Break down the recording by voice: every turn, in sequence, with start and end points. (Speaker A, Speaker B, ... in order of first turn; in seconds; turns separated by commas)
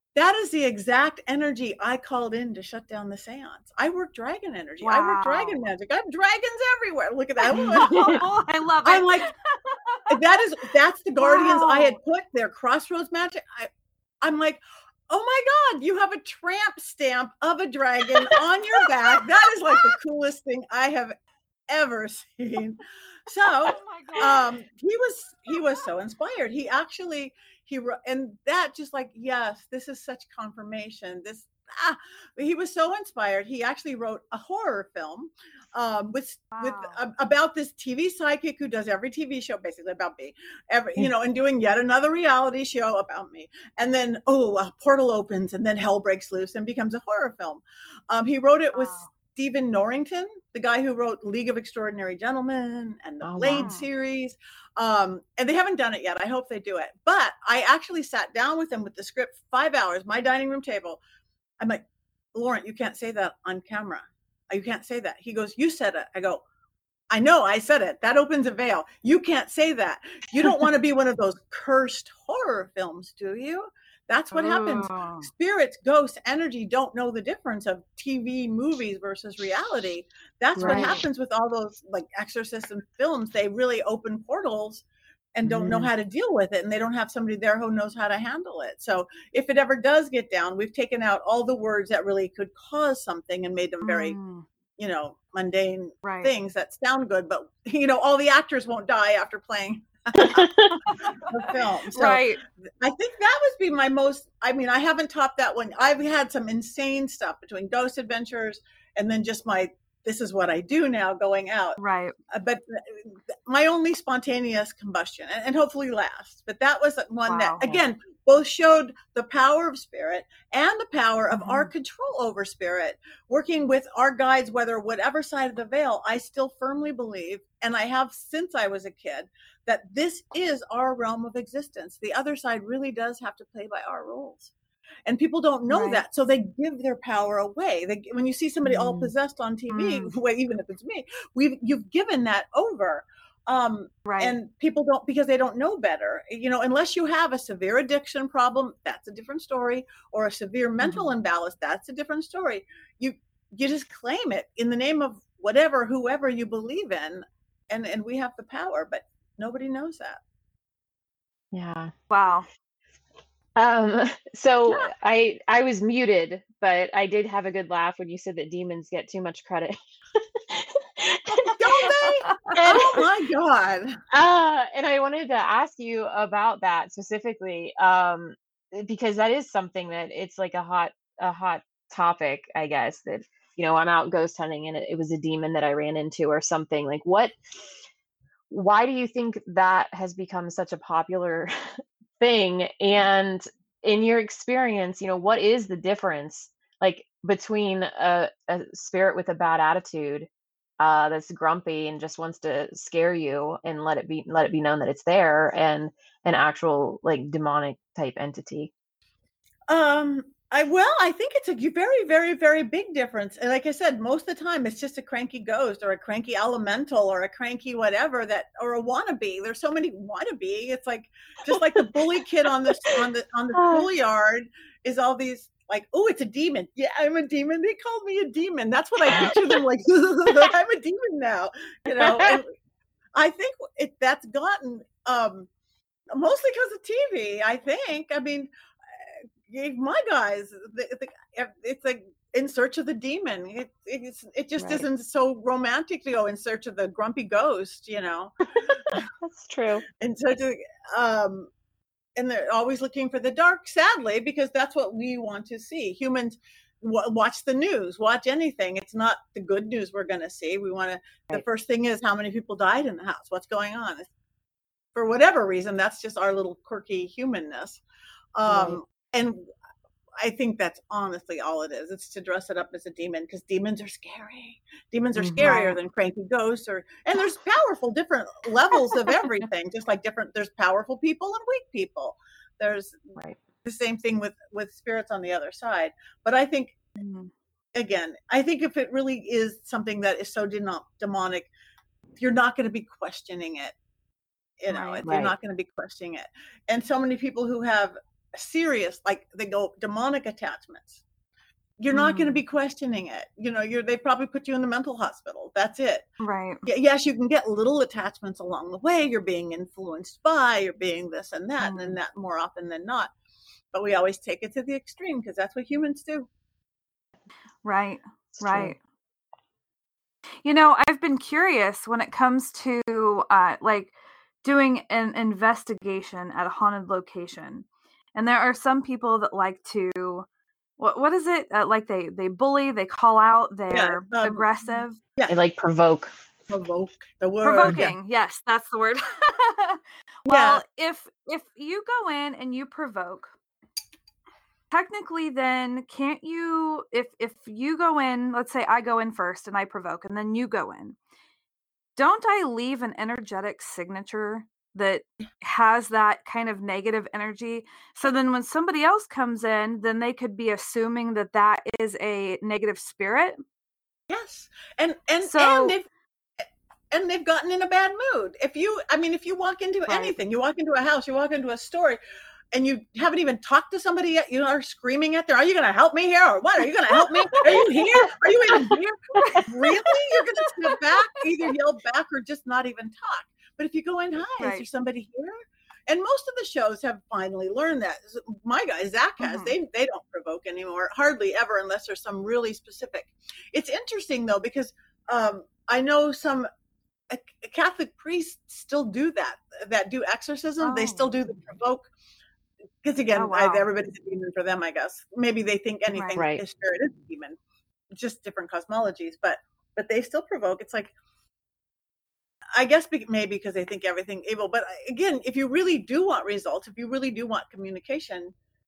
Speaker A: 0.1-8.3, Speaker B: 4.8-5.6, Speaker B: 7.5-10.2, Speaker C: 7.5-8.2, Speaker A: 8.8-9.3, Speaker A: 10.1-13.7, Speaker B: 11.2-12.0, Speaker A: 14.2-21.1, Speaker B: 19.0-19.9, Speaker A: 21.7-61.0, Speaker B: 23.7-24.5, Speaker B: 36.5-37.0, Speaker B: 48.7-49.1, Speaker C: 53.2-53.7, Speaker B: 53.5-53.9, Speaker A: 62.3-66.4, Speaker A: 67.1-84.8, Speaker B: 74.3-75.3, Speaker C: 80.6-81.0, Speaker B: 80.6-81.0, Speaker A: 85.3-94.2, Speaker C: 85.5-85.9, Speaker B: 93.8-94.5, Speaker A: 94.8-100.5, Speaker B: 96.0-96.3, Speaker C: 100.2-100.8, Speaker B: 100.8-101.3, Speaker A: 101.1-111.8, Speaker B: 101.9-102.4, Speaker B: 111.8-112.2, Speaker A: 112.3-134.5, Speaker B: 117.3-117.6, Speaker B: 121.3-121.7, Speaker A: 135.1-160.2, Speaker B: 135.7-136.0, Speaker C: 138.7-139.1, Speaker B: 139.7-140.1, Speaker B: 144.1-144.4, Speaker B: 150.8-151.1, Speaker C: 161.5-161.9, Speaker B: 162.1-162.5, Speaker C: 163.6-171.9, Speaker A: 171.5-174.0, Speaker B: 172.3-173.0, Speaker C: 172.5-173.1, Speaker C: 174.1-187.3, Speaker C: 188.5-191.5, Speaker C: 192.2-200.3, Speaker C: 200.8-208.7, Speaker A: 209.7-232.5, Speaker C: 221.5-222.0, Speaker C: 223.6-223.9, Speaker C: 229.1-229.6, Speaker C: 231.9-232.4, Speaker A: 233.2-235.5, Speaker A: 236.1-238.5, Speaker A: 239.5-248.4, Speaker C: 244.6-244.9, Speaker C: 248.6-249.8, Speaker A: 250.0-251.5, Speaker A: 252.2-264.1, Speaker A: 264.9-267.8, Speaker A: 268.4-269.5, Speaker C: 268.5-268.8, Speaker A: 270.2-286.8, Speaker C: 275.2-275.6, Speaker B: 275.5-275.8, Speaker B: 287.0-287.3, Speaker A: 287.8-291.5, Speaker A: 292.2-293.8, Speaker A: 294.6-301.0, Speaker B: 294.7-295.0, Speaker C: 295.0-295.3, Speaker A: 301.8-306.1, Speaker B: 301.9-302.4, Speaker B: 306.2-306.6, Speaker A: 306.7-313.1, Speaker B: 311.6-312.0, Speaker A: 313.7-316.3, Speaker B: 317.6-318.8, Speaker C: 318.4-318.7, Speaker B: 320.4-330.3, Speaker B: 330.8-335.0, Speaker A: 333.7-334.5, Speaker C: 335.3-336.1, Speaker A: 336.5-337.9, Speaker B: 337.4-343.3, Speaker C: 337.7-337.9, Speaker A: 340.3-340.6, Speaker B: 344.7-351.0, Speaker B: 352.0-363.4, Speaker A: 364.1-365.9, Speaker B: 365.2-365.8, Speaker A: 366.9-372.0, Speaker B: 369.9-370.2, Speaker A: 372.5-396.5, Speaker C: 378.5-379.4, Speaker B: 384.4-384.7, Speaker B: 389.2-389.6, Speaker A: 397.1-401.9, Speaker B: 400.6-401.1, Speaker A: 402.8-407.4, Speaker B: 403.1-403.6, Speaker B: 405.9-406.2, Speaker A: 407.9-410.9, Speaker A: 412.6-418.3